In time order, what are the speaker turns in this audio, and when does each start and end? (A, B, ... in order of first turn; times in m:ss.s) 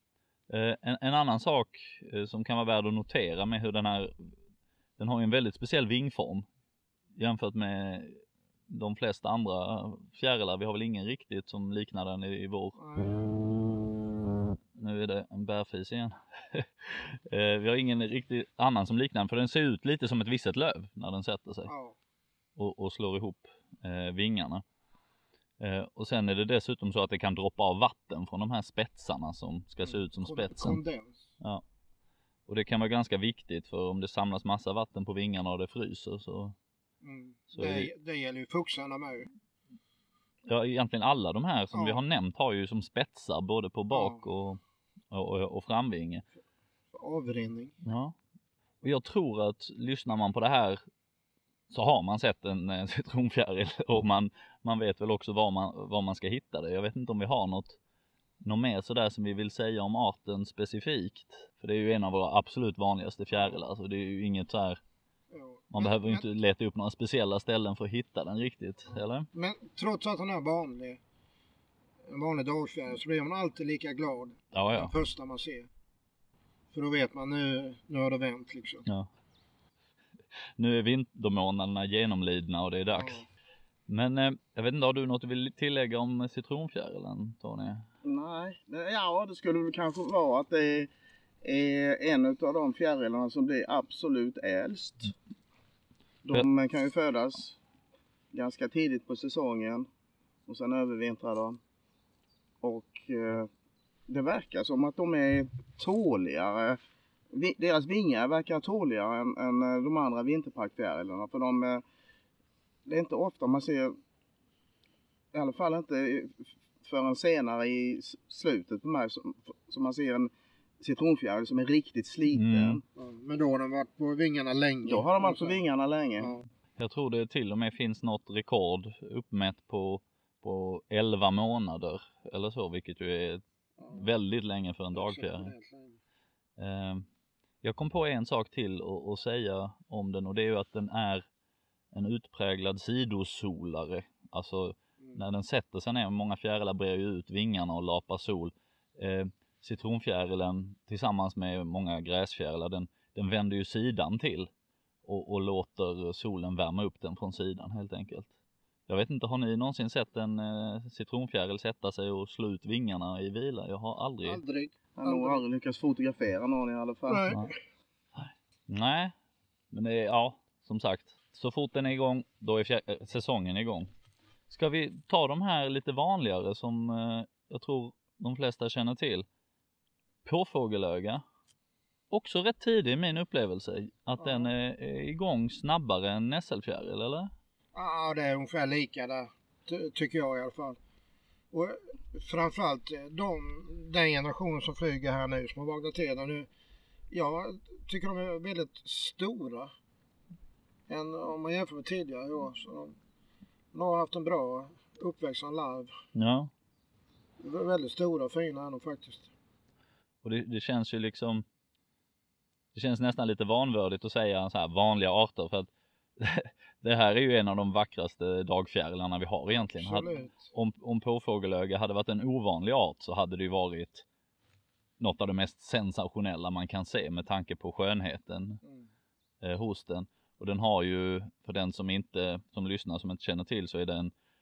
0:00.5-0:04.3 A
0:05.0-0:06.5 A
0:07.2-0:12.8 A
0:12.8-0:13.3 B
0:14.7-0:21.7 A
0:21.7-0:22.0 B
0:22.6-0:24.6 A
0:25.6-0:30.8 A
0:29.8-0:31.3 B
0:32.5-0:36.6 A
0:37.0-0:39.3 B
0:37.5-0:37.9 A
0:40.5-0:46.2 A
0:41.7-0:42.0 B
0:43.9-0:44.2 B
0:46.9-0:47.8 B
0:47.8-0:48.2 A
0:48.8-0:50.8 A
0:51.7-0:57.8 A
0:58.4-1:04.8 A
1:05.3-1:06.2 B
1:05.7-1:09.3 A
1:08.9-1:11.0 B
1:12.0-1:15.7 B
1:14.5-1:14.9 A
1:16.7-1:18.8 B
1:20.6-1:23.2 A
1:23.0-1:23.2 B
1:23.9-1:27.8 A
1:28.0-1:30.9 C
1:31.4-1:35.1 C
1:36.2-1:37.6 C
1:38.3-1:39.9 C
1:40.5-1:41.6 C
1:42.6-1:43.5 C
1:44.1-1:46.8 C
1:47.3-1:51.8 C
1:52.8-1:54.0 C
1:55.3-2:02.8 C
2:02.3-2:02.8 A
2:03.0-2:05.6 B
2:04.8-2:06.3 C
2:06.2-2:06.5 B
2:06.8-2:15.5 A
2:13.8-2:14.1 B
2:14.9-2:16.0 B
2:16.6-2:17.0 A
2:17.6-2:21.3 A
2:21.9-2:34.5 A
2:35.0-2:38.3 A
2:38.9-2:44.4 A
2:44.2-2:45.4 B
2:45.0-2:47.4 C
2:47.1-2:47.5 B
2:48.2-2:49.1 A
2:49.7-2:53.9 A
2:54.5-2:59.2 A
3:00.2-3:01.2 A
3:02.1-3:07.3 A
3:04.2-3:04.5 B
3:07.7-3:10.8 B
3:11.5-3:16.5 B
3:17.1-3:19.7 B
3:20.9-3:22.9 B
3:23.7-3:25.9 B
3:26.1-3:26.5 A
3:27.4-3:29.3 B
3:30.2-3:31.4 A
3:32.7-3:44.0 A
3:39.5-3:40.5 B
3:45.0-3:48.6 A
3:49.4-3:54.1 A